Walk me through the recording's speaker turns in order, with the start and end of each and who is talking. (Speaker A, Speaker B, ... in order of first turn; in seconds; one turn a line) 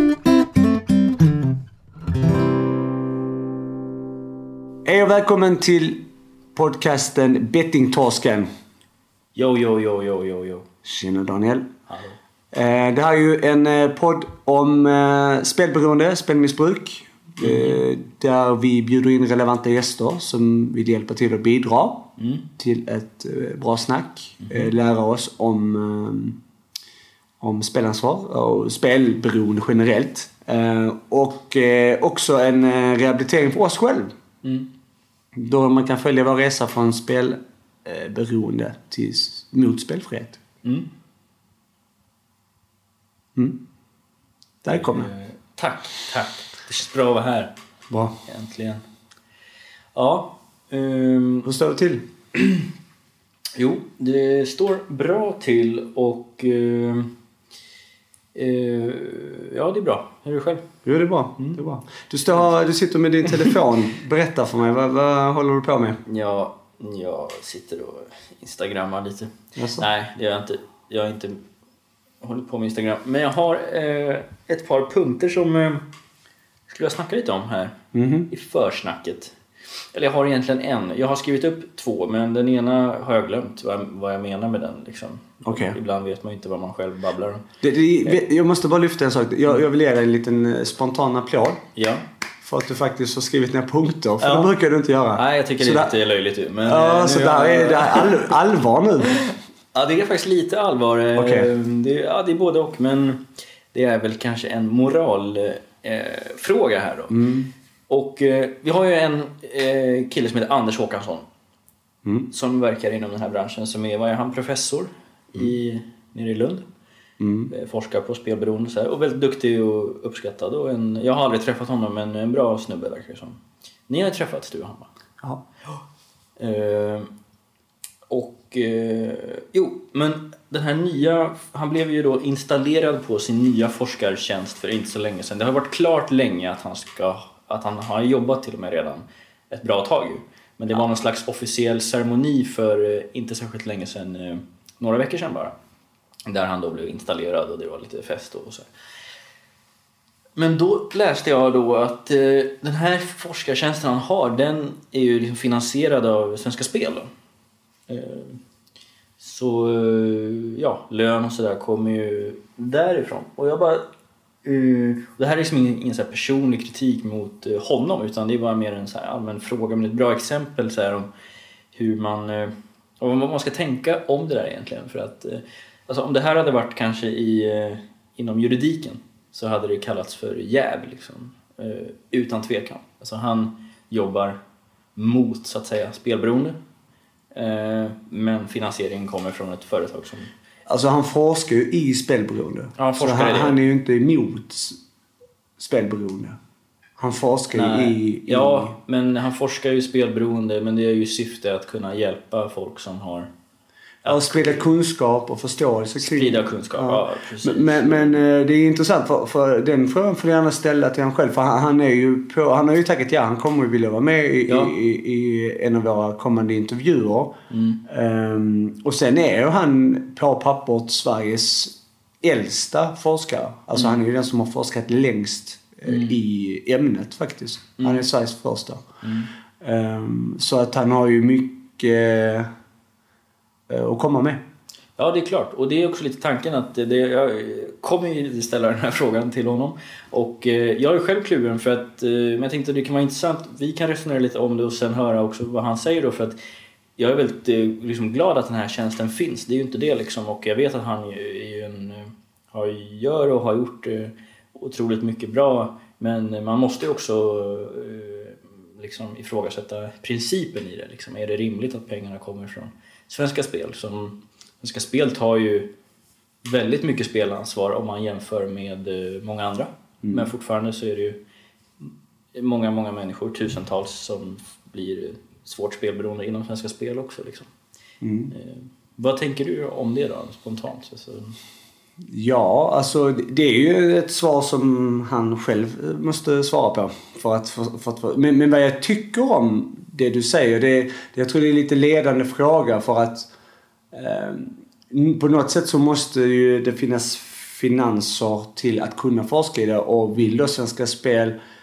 Speaker A: 4.8-8.5
Speaker B: 9.3-10.7
Speaker A: 10.8-11.7
Speaker B: 11.9-12.2
Speaker A: 12.5-26.4
Speaker B: 17.4-17.8
Speaker B: 22.2-22.5
Speaker A: 27.4-34.1
Speaker B: 34.4-34.7
Speaker A: 35.3-40.4
Speaker B: 40.6-40.9
Speaker A: 43.4-43.6
Speaker A: 44.6-45.1
Speaker B: 44.7-47.5
Speaker A: 47.9-48.2
Speaker B: 48.2-48.8
Speaker B: 50.0-51.5
Speaker A: 51.4-52.4
Speaker B: 53.6-57.2
Speaker B: 58.4-60.7
Speaker A: 60.9-66.0
Speaker B: 66.1-71.5
Speaker A: 69.6-69.8
Speaker B: 72.2-75.9
Speaker B: 76.7-77.8
Speaker A: 77.9-78.3
Speaker B: 78.3-79.4
Speaker B: 79.9-87.5
Speaker A: 85.5-85.8
Speaker A: 87.6-91.7
Speaker B: 91.8-92.0
Speaker A: 92.4-95.9
Speaker B: 94.2-94.5
Speaker B: 95.1-98.3
Speaker A: 96.6-99.3
Speaker B: 99.2-107.3
Speaker A: 101.2-101.5
Speaker A: 107.1-107.5
Speaker B: 107.9-111.3
Speaker B: 112.3-116.7
Speaker A: 117.2-117.5
Speaker B: 117.5-124.9
Speaker B: 126.4-127.1
Speaker B: 128.1-145.6
Speaker B: 146.3-148.7
Speaker B: 150.4-157.1
Speaker B: 157.9-158.4
Speaker B: 159.2-163.9
Speaker B: 164.4-171.1
Speaker B: 171.7-184.4
Speaker B: 185.0-186.6
Speaker B: 187.3-190.3
Speaker A: 190.7-194.8
Speaker B: 192.8-193.6
Speaker A: 195.6-196.4
Speaker A: 197.0-198.8
Speaker B: 197.5-203.3
Speaker B: 204.0-204.7
Speaker A: 204.1-228.9
Speaker B: 206.0-208.2
Speaker B: 214.5-214.8
Speaker B: 217.5-217.8
Speaker B: 225.9-226.2
Speaker B: 227.8-228.1
Speaker B: 229.0-229.3
Speaker A: 229.6-232.5
Speaker A: 233.7-234.4
Speaker B: 235.0-246.4
Speaker B: 247.0-265.8
Speaker B: 266.4-271.2
Speaker A: 270.0-270.3
Speaker B: 271.8-277.5
Speaker A: 278.0-278.3
Speaker B: 278.3-281.4
Speaker A: 282.1-293.3
Speaker A: 293.9-301.4